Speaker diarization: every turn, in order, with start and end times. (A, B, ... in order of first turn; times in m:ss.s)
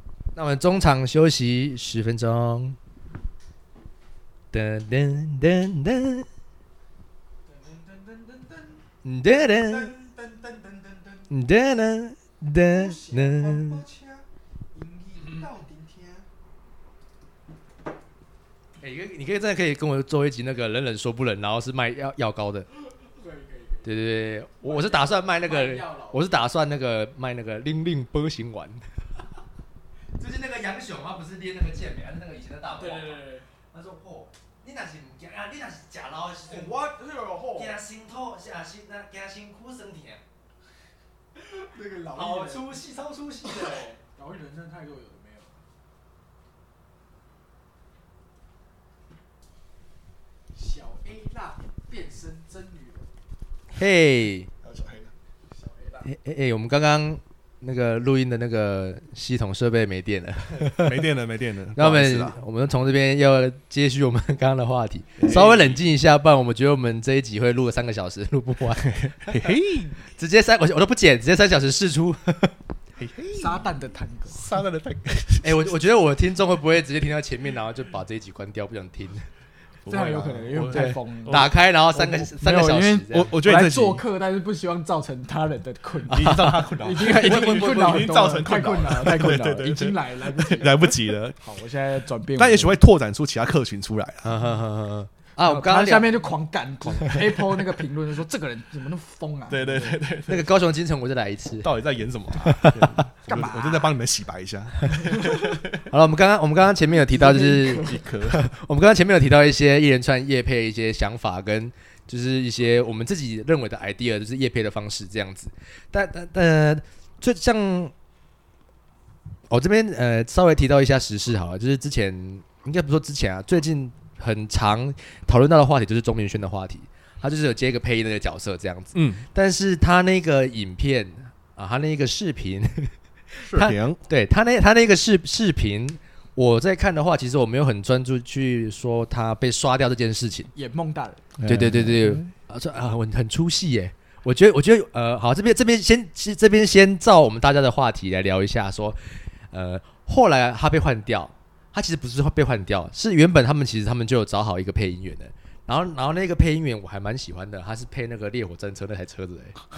0:00.4-0:02.8 A
0:04.5-0:06.3 A
0:07.5-0:08.8 B
0:09.0-0:09.9 A
0:09.4-0:11.3 B
0:11.3-0:13.8 A
0:12.7-0:14.2 B
0:14.8-0:16.2 B
0:18.8-0:22.7 A
0:23.2-0:23.8 B
0:23.8-0:28.8 A
0:24.6-0:26.3 B
0:30.2-0:36.7 A
0:32.8-0:33.4 B
0:36.5-0:37.7 B
0:37.6-0:40.2 A
0:41.4-0:42.8 B
0:42.1-0:43.9 A
0:43.4-0:45.5 B
0:50.5-0:53.1 B
0:53.8-0:54.5 A
0:54.6-0:55.1 C
0:55.5-0:56.0 B
0:56.0-1:01.0 A
1:00.6-1:02.4 C
1:01.8-1:09.5 A
1:05.2-1:05.8 C
1:08.8-1:10.0 C
1:10.2-1:12.5 A
1:13.0-1:13.7 C
1:13.4-1:14.4 B
1:14.3-1:15.8 C
1:15.4-1:19.2 A
1:19.8-1:21.5 C
1:19.9-1:30.8 B
1:20.7-1:23.3 A
1:23.1-1:24.0 C
1:26.1-1:31.4 C
1:26.2-1:27.8 A
1:31.4-1:32.8 B
1:32.4-1:34.4 C
1:34.2-1:36.1 A
1:35.5-1:40.0 B
1:39.5-1:40.5 C
1:40.3-1:41.7 A
1:41.6-1:45.9 C
1:42.5-1:43.0 A
1:43.3-1:43.9 B
1:45.2-1:45.6 B
1:45.9-1:57.9 A
1:47.1-1:48.0 B
1:47.7-1:48.4 C
1:59.5-2:20.5 A
2:08.9-2:09.2 C
2:13.4-2:14.0 C
2:20.6-2:21.2 B
2:21.4-2:22.3 C
2:21.5-2:29.0 A
2:29.5-2:39.6 A